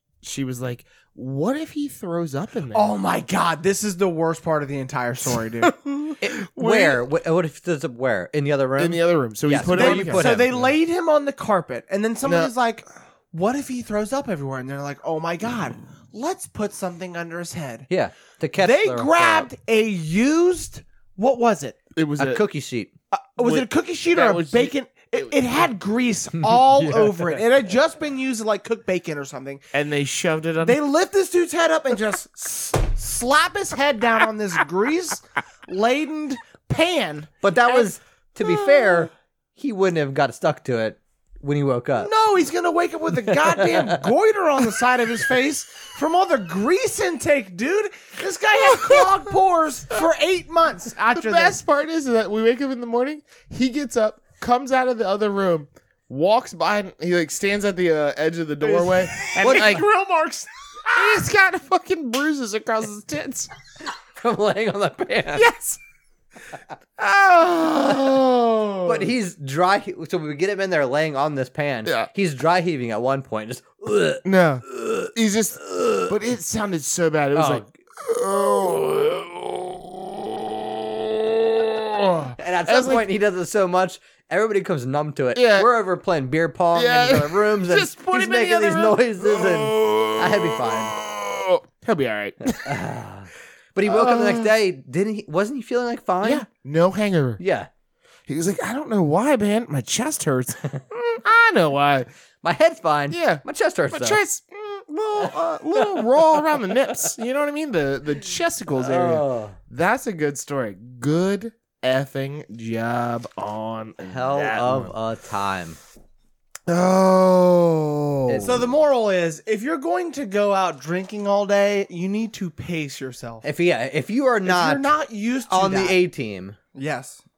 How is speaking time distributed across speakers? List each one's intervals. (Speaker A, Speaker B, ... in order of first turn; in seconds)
Speaker A: 0.2-2.9, 8.8-10.7, 12.2-12.5, 21.9-22.4, 23.4-25.3, 29.7-30.8, 38.4-39.0, 48.7-49.1, 51.1-59.9, 60.9-63.5, 65.3-65.8, 67.0-68.8, 74.2-83.1, 85.3-85.7, 86.7-92.8, 93.9-94.5, 96.2-97.4, 98.3-102.1, 103.1-114.9, 116.7-118.7
Speaker B: 2.7-7.0, 9.7-17.9, 18.6-21.8, 23.1-29.6, 30.6-37.9, 42.0-51.6, 58.6-61.2, 118.4-123.5, 124.5-126.0, 126.7-127.2
Speaker C: 6.2-10.5, 17.9-19.5, 22.2-22.9, 26.4-27.4, 37.4-42.1, 43.3-44.0, 59.4-59.7, 64.2-65.5, 68.9-75.1, 75.7-76.1, 77.3-77.7, 82.4-91.0, 92.6-96.5, 97.4-97.7, 102.4-104.2, 108.8-109.6, 114.0-115.8, 118.3-118.6, 123.4-124.8, 125.5-126.6